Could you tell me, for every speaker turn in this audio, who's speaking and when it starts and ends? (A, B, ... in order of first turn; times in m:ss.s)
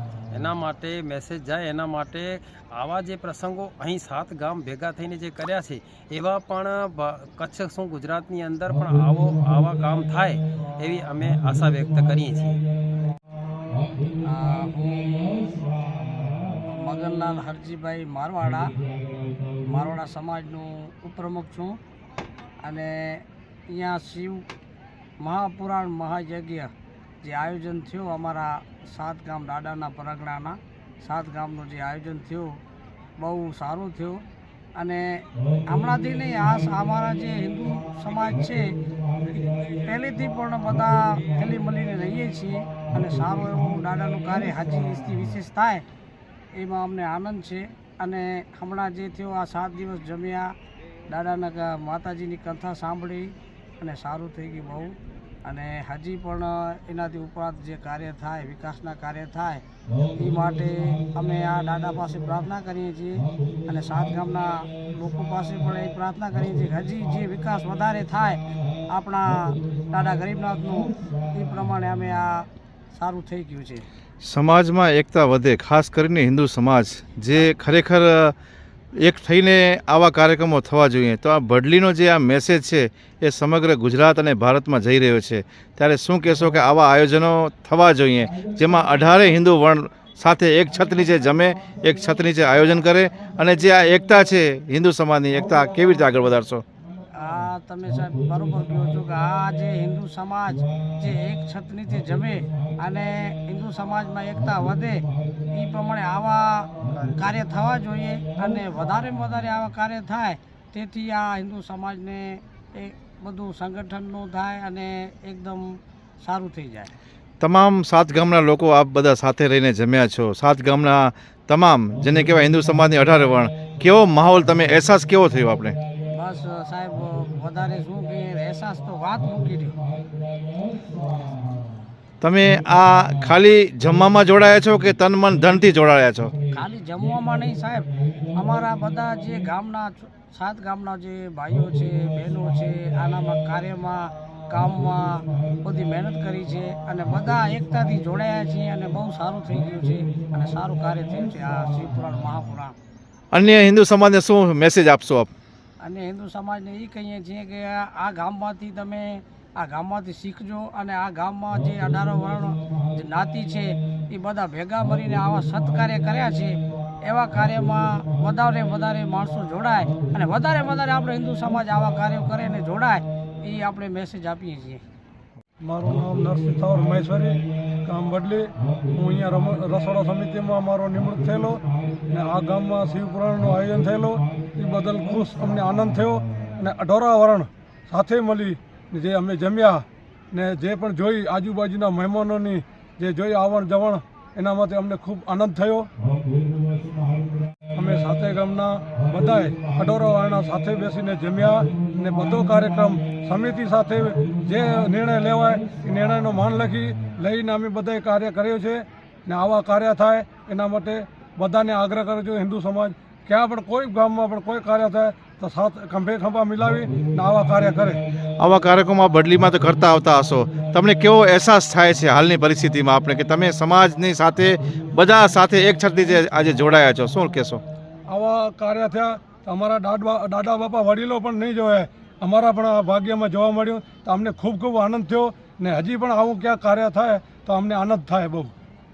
0:00.3-0:12.6 A
0:14.2-0:18.8 B
0:19.6-0:21.8 B
0:22.6-0:24.4 B
0:25.2-0:26.7 B
0:27.2-0:32.6 B
0:33.2-0:34.2 B
0:34.8-0:45.8 B
0:46.5-0:50.5 B
0:51.1-0:59.6 B
1:00.1-1:13.9 B
1:14.2-1:18.3 C
1:19.0-1:36.6 C
1:37.1-1:56.9 B
1:57.4-2:05.8 C
2:06.1-2:09.8 B
2:12.2-2:16.3 C
2:16.5-2:32.7 B
2:33.3-2:35.3 C
2:35.8-2:54.8 B
2:55.6-3:15.9 D
3:17.7-3:38.0 D
3:38.4-3:47.6 C
3:48.0-3:58.5 D